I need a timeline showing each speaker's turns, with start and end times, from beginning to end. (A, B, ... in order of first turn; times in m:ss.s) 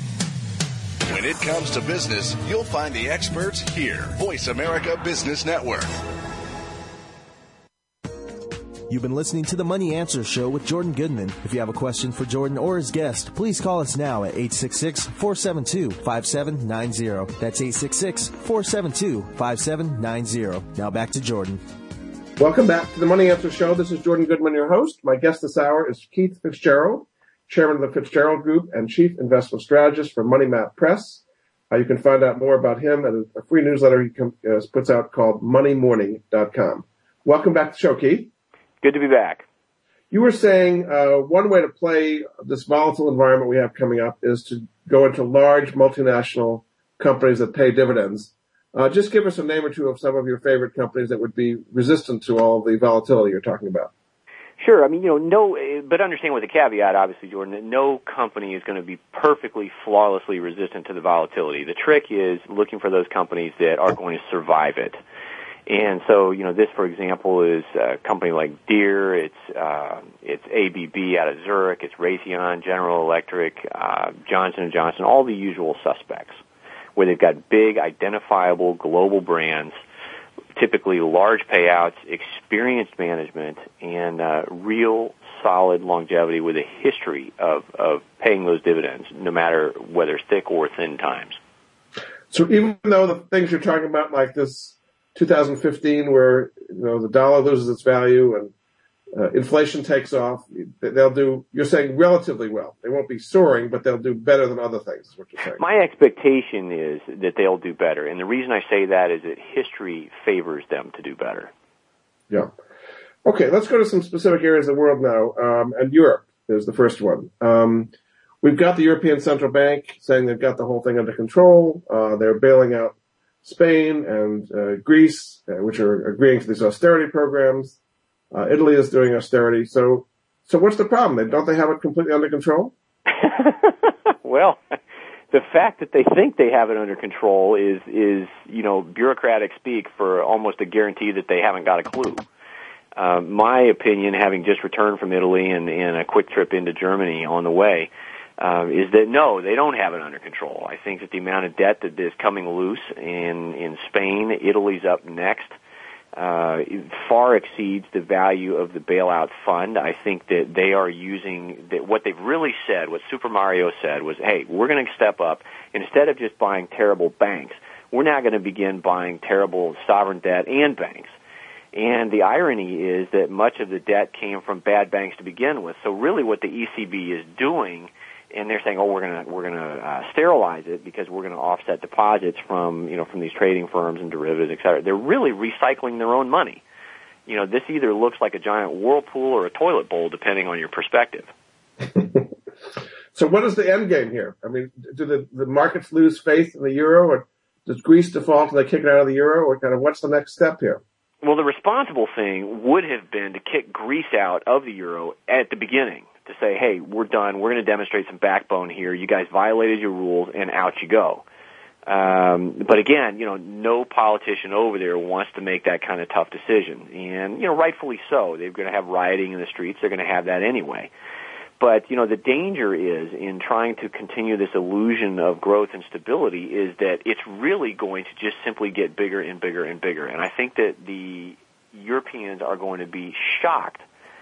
0:01.1-0:05.9 A
0:08.9-0:21.6 B
0:22.4-0:38.3 C
0:38.8-0:39.4 D
0:40.1-0:53.9 C
0:54.6-1:05.0 D
1:05.7-1:16.4 D
1:17.0-1:19.8 D
1:20.6-1:31.4 D
1:32.3-1:38.5 C
1:39.1-1:45.6 C
1:45.6-1:51.5 D
1:53.2-1:57.9 C
1:58.4-2:07.8 C
2:08.3-2:12.7 C
2:13.2-2:14.6 D
2:15.3-2:22.2 D
2:23.0-2:35.5 D
2:36.2-2:51.1 D
2:51.7-3:06.6 D
3:07.3-3:11.3 D
3:11.9-3:12.3 C
3:13.1-3:20.8 C
3:21.2-3:31.2 D
3:31.9-3:40.9 D
3:41.6-3:53.8 D